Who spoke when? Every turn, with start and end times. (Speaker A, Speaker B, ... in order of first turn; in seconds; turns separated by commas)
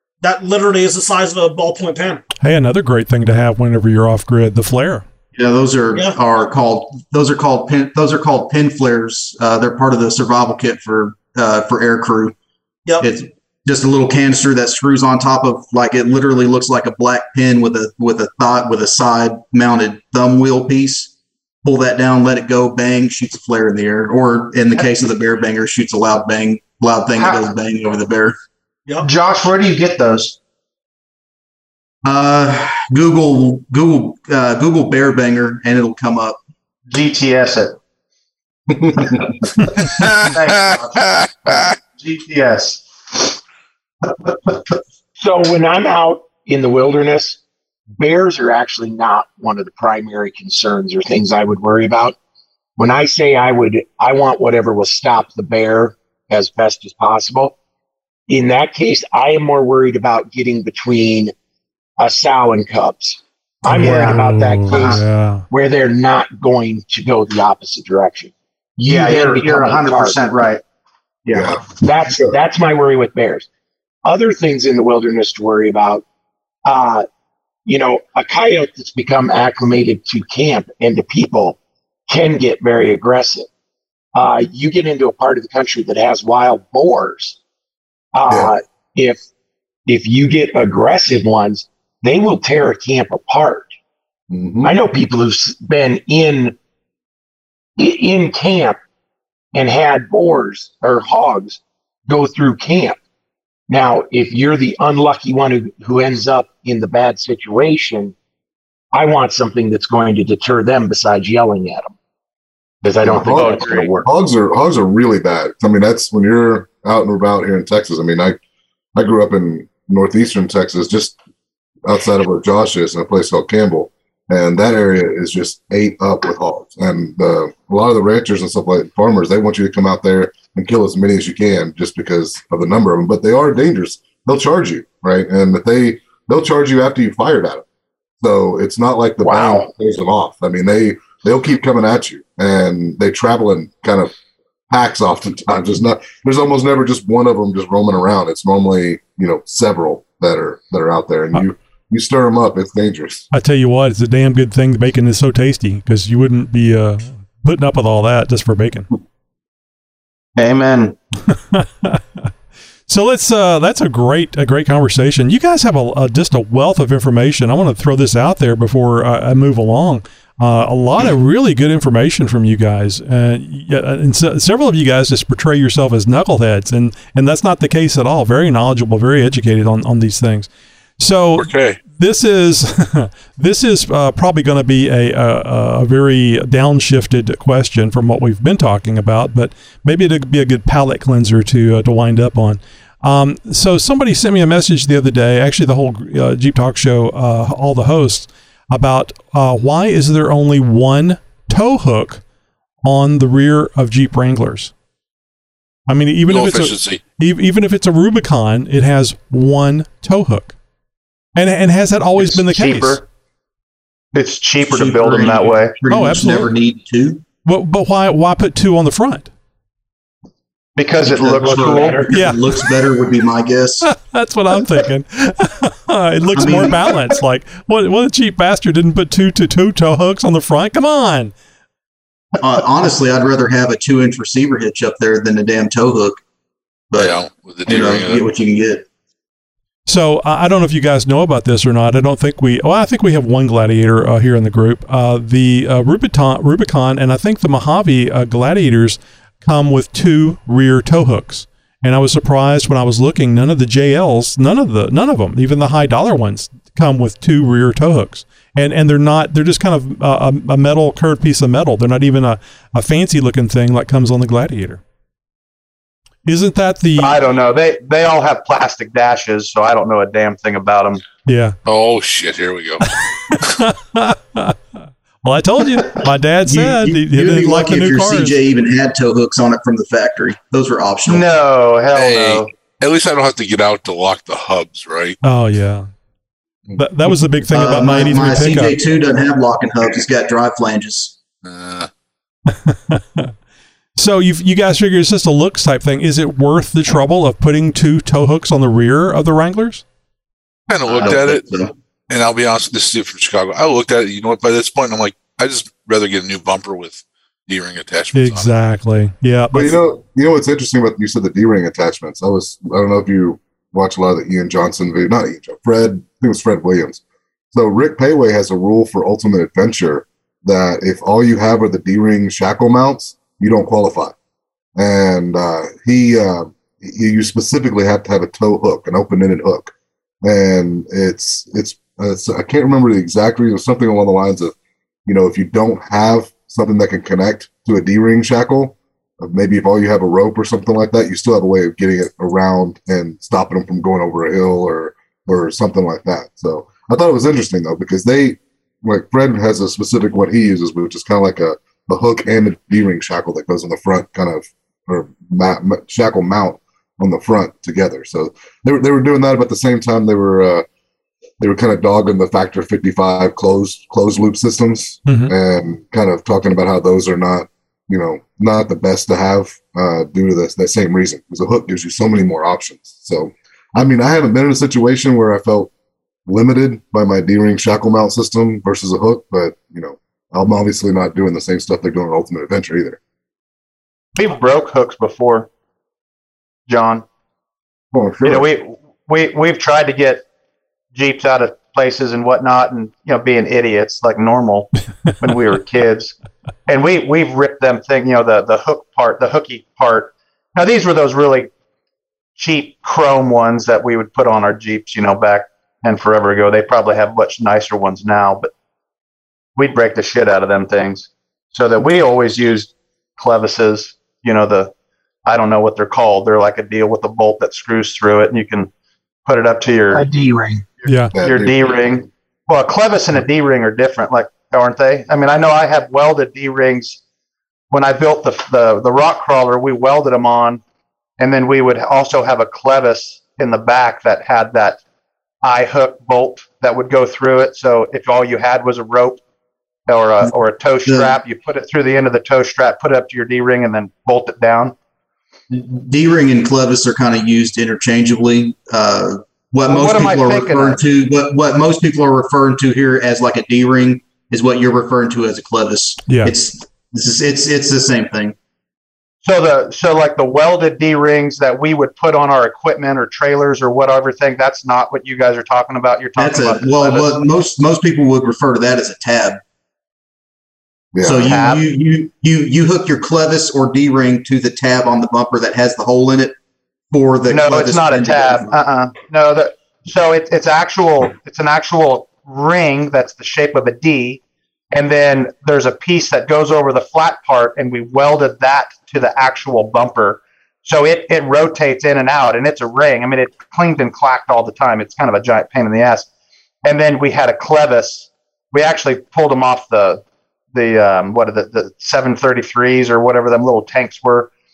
Speaker A: 0.2-2.2, Speaker B: 2.4-5.0, Speaker C: 5.3-12.3, Speaker C: 13.0-21.1, Speaker C: 21.6-28.4, Speaker D: 29.0-30.4, Speaker C: 32.0-36.4, Speaker D: 36.9-37.8, Speaker E: 39.8-41.7, Speaker D: 40.3-43.4, Speaker D: 44.0-44.8, Speaker F: 45.2-47.4, Speaker F: 48.0-52.2, Speaker F: 52.8-57.5, Speaker F: 58.3-61.3, Speaker F: 62.0-70.3, Speaker B: 63.7-65.5, Speaker D: 63.8-65.0, Speaker D: 68.9-70.6, Speaker D: 71.3-71.7, Speaker G: 71.3-72.3, Speaker F: 71.8-73.5, Speaker F: 74.0-76.0, Speaker F: 76.7-77.1, Speaker F: 77.7-83.5, Speaker F: 84.2-87.4, Speaker F: 88.1-89.2, Speaker G: 88.3-88.5, Speaker F: 89.9-93.7, Speaker G: 94.3-94.7, Speaker F: 94.6-96.6, Speaker F: 97.8-98.8, Speaker F: 99.5-103.0, Speaker F: 103.7-108.1, Speaker F: 108.9-111.9, Speaker F: 112.8-114.1, Speaker G: 113.0-118.4, Speaker D: 113.2-114.0, Speaker G: 119.0-121.2, Speaker G: 121.8-137.7, Speaker G: 138.2-144.1, Speaker F: 139.3-139.7, Speaker G: 144.7-153.3, Speaker B: 153.3-158.9, Speaker D: 160.4-161.0, Speaker B: 161.3-162.3, Speaker B: 162.9-202.2, Speaker E: 181.4-181.8, Speaker B: 202.8-204.7, Speaker B: 205.9-210.6, Speaker E: 206.3-207.0, Speaker B: 211.3-213.0, Speaker D: 212.2-213.0, Speaker D: 214.1-215.7, Speaker C: 214.6-217.2, Speaker B: 215.9-216.5, Speaker B: 217.5-219.3, Speaker D: 220.8-222.1, Speaker C: 221.0-223.9, Speaker F: 221.3-222.2, Speaker B: 222.1-222.4, Speaker B: 223.8-231.3, Speaker C: 226.4-226.8, Speaker C: 232.4-236.2, Speaker C: 236.9-238.8, Speaker E: 236.9-238.3, Speaker B: 239.9-264.8, Speaker B: 266.3-267.2, Speaker D: 267.0-271.0, Speaker B: 271.3-271.6, Speaker E: 271.6-272.9, Speaker B: 273.1-274.6, Speaker B: 275.2-278.4, Speaker C: 276.4-281.3, Speaker D: 281.1-282.5, Speaker E: 281.9-285.2, Speaker B: 285.2-285.9, Speaker B: 286.8-288.8, Speaker C: 287.5-291.2, Speaker E: 291.4-291.9, Speaker B: 292.5-293.3, Speaker B: 294.0-299.8, Speaker E: 300.7-308.6, Speaker C: 300.9-301.7, Speaker B: 308.1-309.8, Speaker G: 309.5-317.0, Speaker G: 317.5-324.1, Speaker G: 324.8-334.5, Speaker G: 335.1-360.6, Speaker G: 361.4-375.7, Speaker B: 365.1-365.3, Speaker G: 376.3-383.0, Speaker D: 384.1-385.5, Speaker D: 386.7-387.1, Speaker G: 387.9-388.5, Speaker D: 388.2-390.2, Speaker D: 390.9-396.1, Speaker D: 396.7-401.5, Speaker D: 402.4-408.5, Speaker D: 409.6-414.7, Speaker D: 415.3-418.7, Speaker D: 419.3-420.1, Speaker F: 419.9-420.7, Speaker B: 420.9-421.1, Speaker G: 421.1-421.9, Speaker D: 421.2-427.0, Speaker D: 427.7-430.6, Speaker D: 431.2-434.8, Speaker D: 435.4-439.2, Speaker D: 439.9-444.8, Speaker C: 440.9-441.2, Speaker C: 445.5-458.4, Speaker D: 449.7-450.8, Speaker B: 456.1-456.3, Speaker D: 459.2-467.2, Speaker C: 466.2-469.4, Speaker G: 470.9-471.4, Speaker C: 471.0-476.3, Speaker D: 471.1-471.6, Speaker C: 476.9-478.5, Speaker D: 477.3-496.1, Speaker D: 496.6-500.0, Speaker D: 500.5-504.3